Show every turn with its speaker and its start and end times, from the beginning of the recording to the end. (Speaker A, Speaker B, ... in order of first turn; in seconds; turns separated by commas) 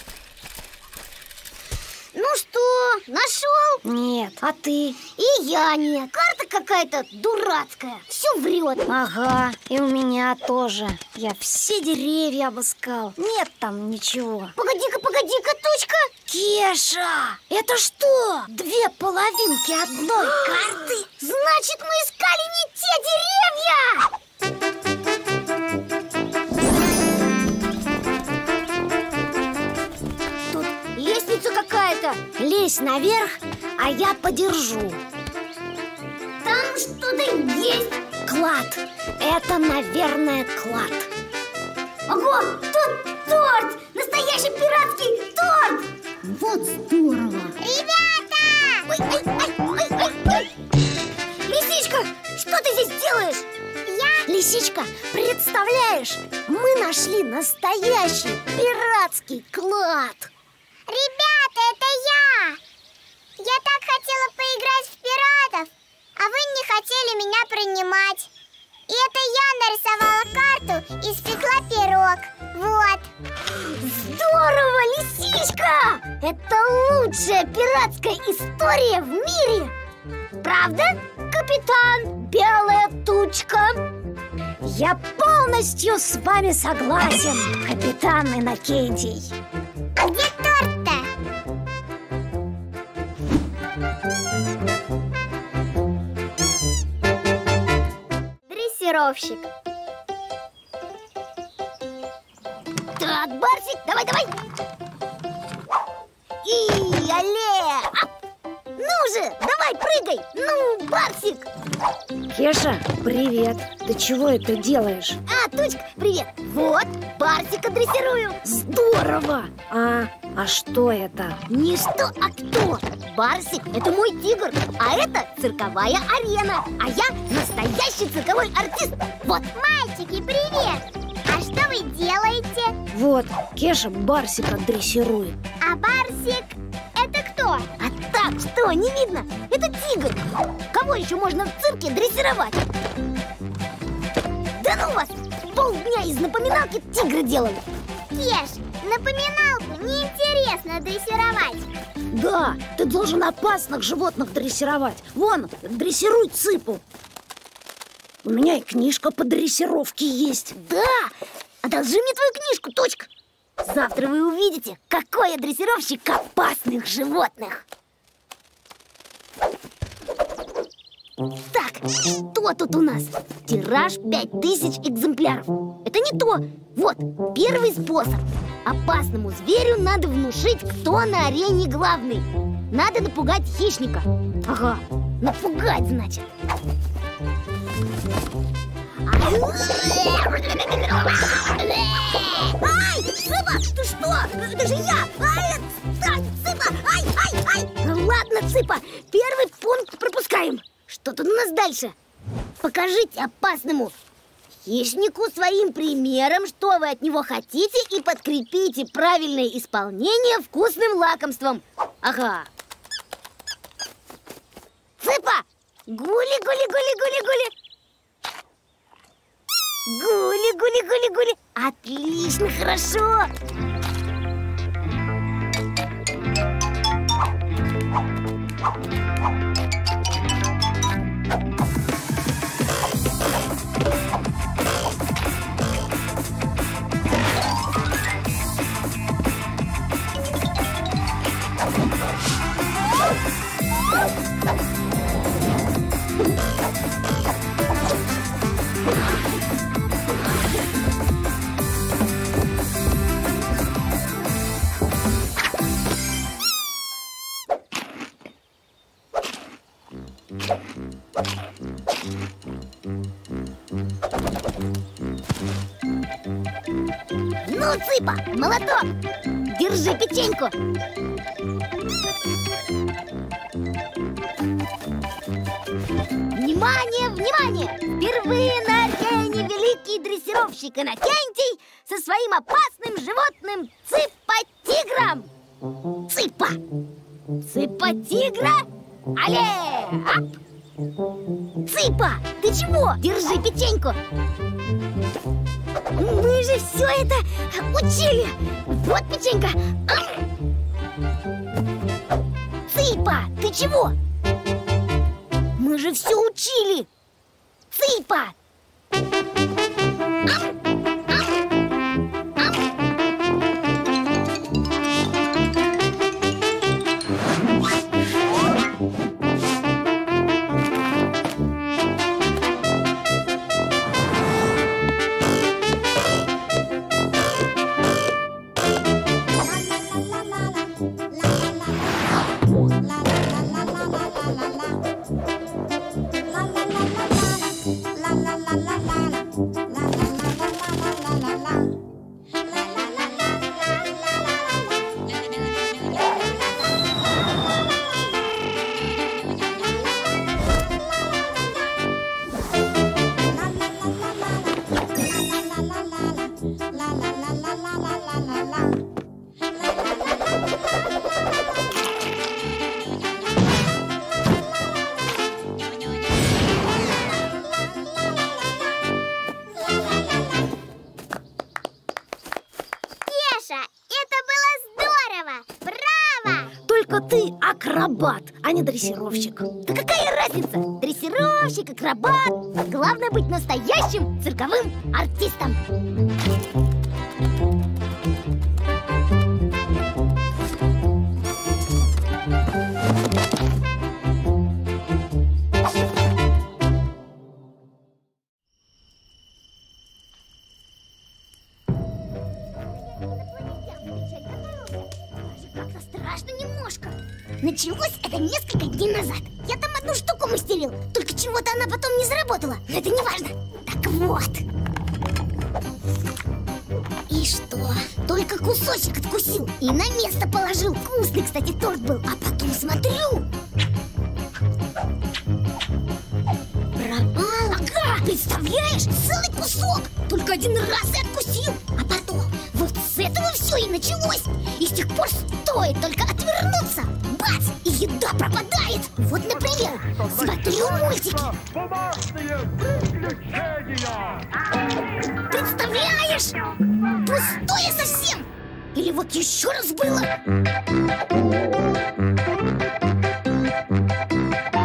Speaker A: 2.1-3.8, Speaker B: 3.8-5.0, Speaker A: 5.2-8.9, Speaker B: 8.9-14.5, Speaker A: 14.6-16.1, Speaker B: 16.3-20.9, Speaker A: 20.2-24.1, Speaker A: 30.5-32.2, Speaker B: 32.4-35.0, Speaker A: 36.4-38.0, Speaker B: 38.2-41.1, Speaker A: 42.1-47.6, Speaker C: 47.6-48.9, Speaker A: 48.9-50.5, Speaker A: 51.5-53.5, Speaker C: 53.9-54.3, Speaker B: 54.2-60.3, Speaker C: 60.9-62.6, Speaker C: 63.4-68.3, Speaker C: 68.9-73.1, Speaker A: 73.6-79.7, Speaker A: 80.4-83.8, Speaker B: 84.6-89.3, Speaker C: 90.0-91.1, Speaker C: 98.5-99.5, Speaker A: 103.0-104.4, Speaker A: 106.4-108.1, Speaker A: 108.8-111.5, Speaker B: 112.3-115.2, Speaker A: 115.3-118.4, Speaker B: 118.4-121.4, Speaker A: 121.5-129.4, Speaker C: 129.5-132.7, Speaker B: 132.9-135.4, Speaker C: 135.6-137.7, Speaker A: 137.8-142.7, Speaker A: 144.6-147.6, Speaker C: 148.1-151.7, Speaker B: 152.1-156.8, Speaker B: 158.2-160.5, Speaker A: 160.5-163.1, Speaker A: 163.6-167.6, Speaker A: 171.5-186.3, Speaker A: 189.1-201.9, Speaker A: 202.6-203.9, Speaker A: 204.6-212.5, Speaker A: 215.0-217.5, Speaker A: 219.9-223.3, Speaker A: 267.4-268.9, Speaker A: 269.5-270.5, Speaker A: 276.3-285.3, Speaker A: 286.1-286.6, Speaker A: 287.4-290.3, Speaker A: 291.6-294.0, Speaker A: 296.0-300.2, Speaker A: 302.7-303.9, Speaker A: 305.6-306.9, Speaker A: 307.7-308.3, Speaker C: 373.1-376.5, Speaker B: 376.6-379.5, Speaker A: 379.6-385.6, Speaker A: 402.9-414.4, Speaker A: 417.4-423.3, Speaker A: 426.8-441.3, Speaker A: 445.3-446.4, Speaker A: 447.0-450.1